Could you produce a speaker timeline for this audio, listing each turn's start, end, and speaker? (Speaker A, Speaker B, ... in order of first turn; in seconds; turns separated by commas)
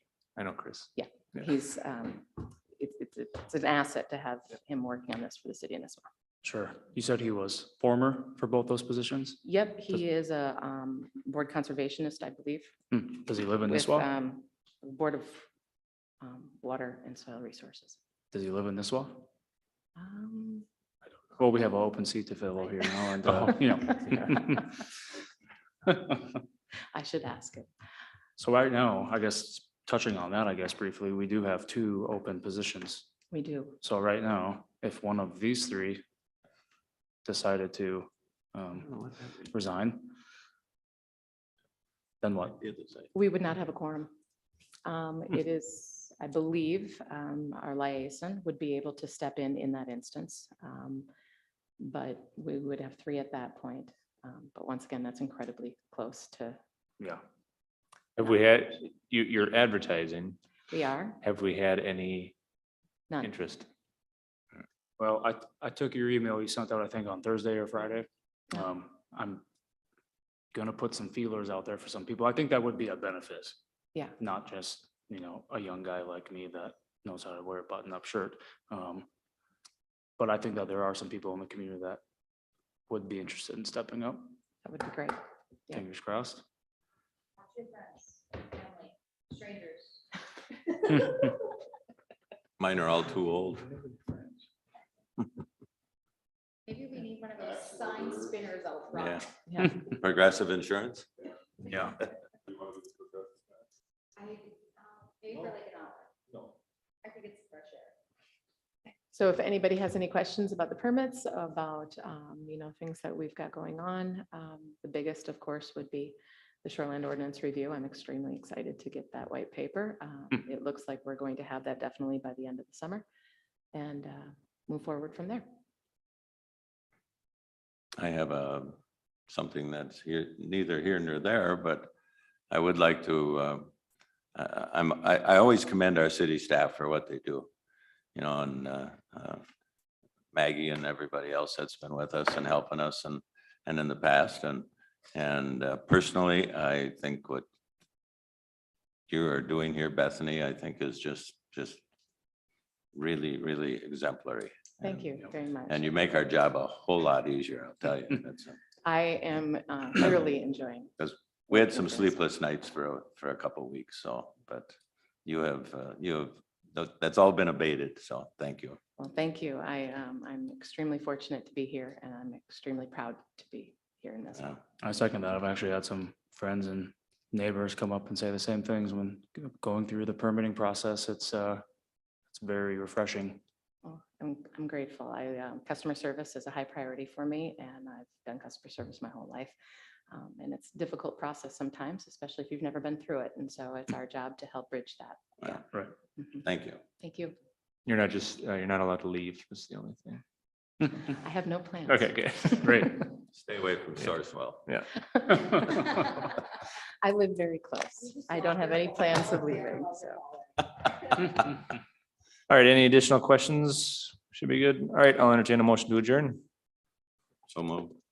Speaker A: 0.3-0.9, Speaker B: 1.0-6.0, Speaker C: 6.4-9.4, Speaker B: 9.4-12.7, Speaker C: 12.9-14.1, Speaker B: 13.7-15.5, Speaker B: 16.2-18.0, Speaker C: 18.3-19.3, Speaker B: 19.9-20.6, Speaker C: 21.4-24.7, Speaker C: 25.9-26.4, Speaker B: 26.9-27.7, Speaker C: 28.4-33.1, Speaker B: 33.3-33.8, Speaker C: 33.8-36.0, Speaker C: 37.2-40.1, Speaker C: 42.2-42.6, Speaker D: 42.6-43.0, Speaker B: 43.1-44.1, Speaker B: 44.8-51.1, Speaker B: 51.8-56.6, Speaker A: 58.2-60.4, Speaker B: 60.7-61.2, Speaker A: 61.2-62.3, Speaker A: 63.2-63.6, Speaker C: 65.0-69.4, Speaker C: 70.5-73.6, Speaker C: 74.2-79.0, Speaker C: 80.2-82.0, Speaker C: 82.9-84.3, Speaker B: 84.6-85.8, Speaker C: 85.7-86.4, Speaker E: 87.4-90.0, Speaker E: 90.7-91.4, Speaker D: 92.6-93.8, Speaker E: 96.7-99.2, Speaker D: 98.9-101.1, Speaker B: 99.5-99.7, Speaker D: 101.7-102.0, Speaker E: 104.2-106.1, Speaker E: 107.0-107.9, Speaker B: 109.1-123.0, Speaker B: 123.7-125.4, Speaker D: 128.0-128.8, Speaker D: 129.3-131.9, Speaker D: 132.5-133.7, Speaker D: 134.3-137.5, Speaker D: 138.1-139.4, Speaker D: 140.3-147.4, Speaker D: 149.1-151.8, Speaker D: 152.9-155.1, Speaker B: 154.8-155.9, Speaker D: 155.7-158.6, Speaker B: 158.8-160.9, Speaker D: 161.0-168.8, Speaker B: 161.5-162.1, Speaker B: 169.0-174.6, Speaker C: 174.8-181.6, Speaker C: 182.3-183.4, Speaker B: 183.8-189.5, Speaker B: 190.1-195.6, Speaker B: 196.2-196.4, Speaker D: 196.4-196.8, Speaker B: 197.0-197.3, Speaker A: 197.8-200.2, Speaker B: 201.1-202.9, Speaker A: 201.9-203.1, Speaker D: 203.3-204.6, Speaker B: 205.1-206.2, Speaker B: 207.0-210.2, Speaker E: 208.5-209.8, Speaker A: 212.5-216.4, Speaker D: 217.5-217.9